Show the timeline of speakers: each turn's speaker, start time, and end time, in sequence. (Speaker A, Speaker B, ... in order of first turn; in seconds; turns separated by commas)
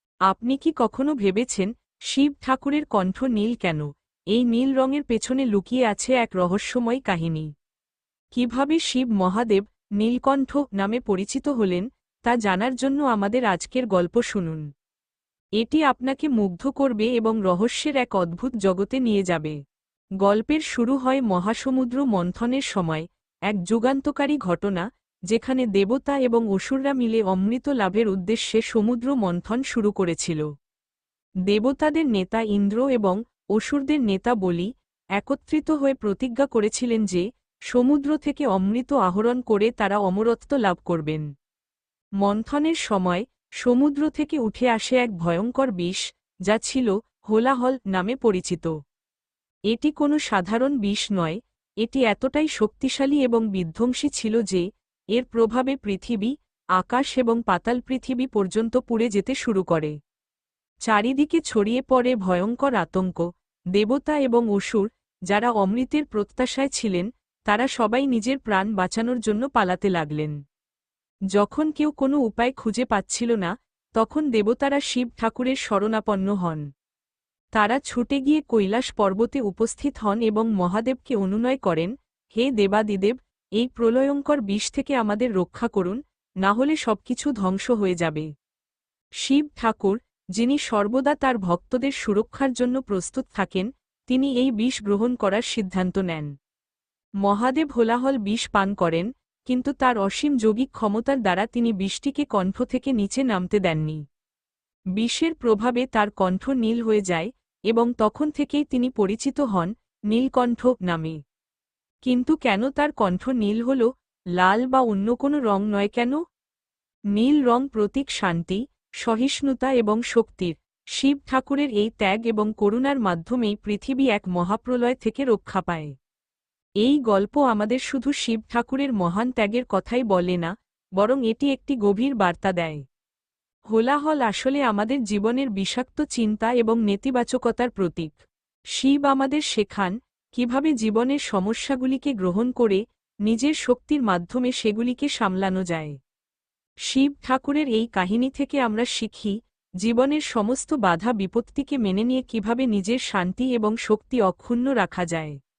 Speaker A: 0.3-7.5, Speaker A: 8.3-14.7, Speaker A: 15.6-19.6, Speaker A: 20.2-30.4, Speaker A: 31.5-41.3, Speaker A: 42.2-48.7, Speaker A: 49.7-60.0, Speaker A: 60.9-70.4, Speaker A: 71.3-76.7, Speaker A: 77.5-88.3, Speaker A: 89.2-96.3, Speaker A: 97.2-104.0, Speaker A: 105.0-111.2, Speaker A: 112.0-116.2, Speaker A: 117.2-125.9, Speaker A: 126.8-132.8, Speaker A: 133.7-138.2, Speaker A: 138.8-146.0, Speaker A: 146.9-155.4